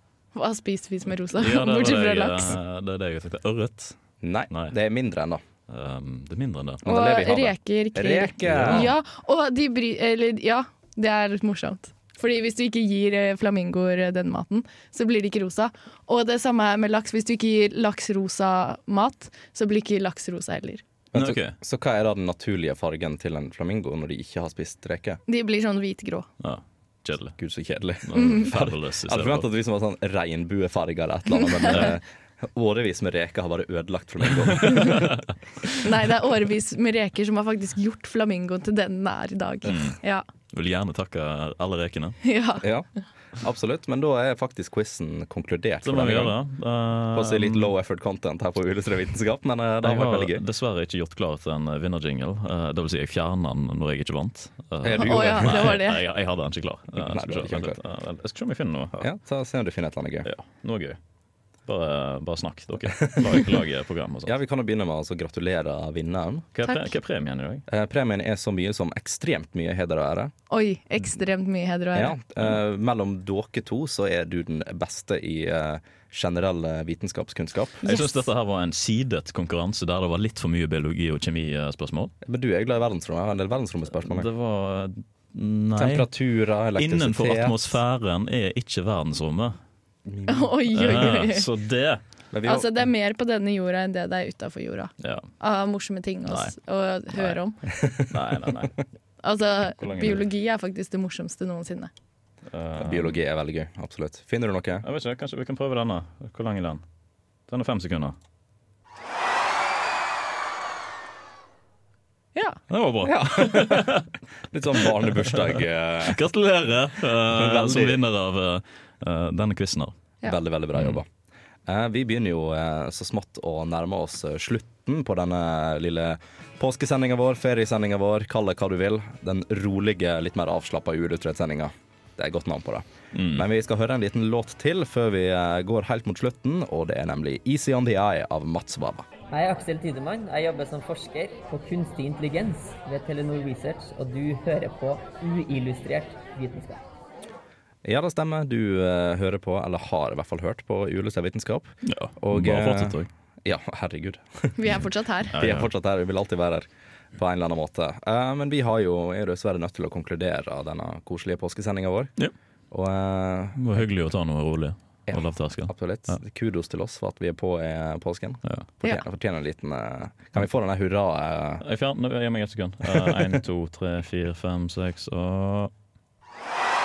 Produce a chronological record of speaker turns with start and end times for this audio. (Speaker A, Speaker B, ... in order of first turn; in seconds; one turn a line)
Speaker A: 0.3-2.5
Speaker B: 1.3-4.0
Speaker C: 4.2-5.4
Speaker B: 5.7-6.8
Speaker C: 6.8-8.9
Speaker A: 6.8-20.8
Speaker B: 8.4-8.9
Speaker C: 21.1-25.2
Speaker B: 21.1-21.6
Speaker A: 25.3-26.2
Speaker B: 26.4-27.4
Speaker C: 27.4-35.2
Speaker B: 28.0-29.5
Speaker A: 28.1-28.5
Speaker B: 34.5-35.2
Speaker A: 35.8-40.2
Speaker B: 39.6-40.0
Speaker B: 40.5-42.2
Speaker A: 42.2-42.7
Speaker C: 42.6-46.4
Speaker B: 45.8-47.7
Speaker C: 47.1-50.4
Speaker B: 49.8-59.0
Speaker C: 54.8-55.8
Speaker A: 54.9-56.0
Speaker C: 56.9-57.8
Speaker C: 59.0-60.3
Speaker B: 60.2-61.0
Speaker B: 61.6-64.3
Speaker C: 62.9-63.5
Speaker C: 64.2-66.5
Speaker B: 66.5-67.6
Speaker A: 66.7-66.9
Speaker C: 67.7-70.3
Speaker A: 70.5-72.2
Speaker C: 71.9-77.9
Speaker B: 77.8-82.1
Speaker A: 77.8-78.2
Speaker C: 82.2-84.3
Speaker B: 84.0-86.1
Speaker C: 85.8-87.8
Speaker B: 86.8-89.6
Speaker C: 90.0-91.1
Speaker A: 90.3-91.5
Speaker B: 90.7-92.0
Speaker C: 92.3-92.7
Speaker A: 92.4-97.6
Speaker B: 95.0-95.3
Speaker B: 96.2-96.5
Speaker B: 97.1-97.4
Speaker C: 97.7-98.4
Speaker B: 98.0-98.8
Speaker A: 99.2-101.9
Speaker B: 99.8-100.2
Speaker B: 102.5-103.2
Speaker C: 102.8-104.9
Speaker B: 104.8-106.8
Speaker B: 107.5-108.2
Speaker A: 112.3-112.6
Speaker B: 112.7-114.1
Speaker C: 113.0-116.2
Speaker B: 114.8-115.3
Speaker B: 116.0-119.9
Speaker C: 117.2-118.0
Speaker C: 120.2-121.0
Speaker C: 121.7-139.1
Speaker B: 133.1-133.5
Speaker D: 139.3-146.8
Speaker C: 147.8-154.5
Speaker B: 151.8-153.1
Speaker A: 154.5-155.3
Speaker B: 155.3-155.7
Speaker C: 155.3-162.1
Speaker C: 162.7-163.6
Speaker B: 163.6-166.2
Speaker C: 165.1-171.6
Speaker B: 171.6-175.7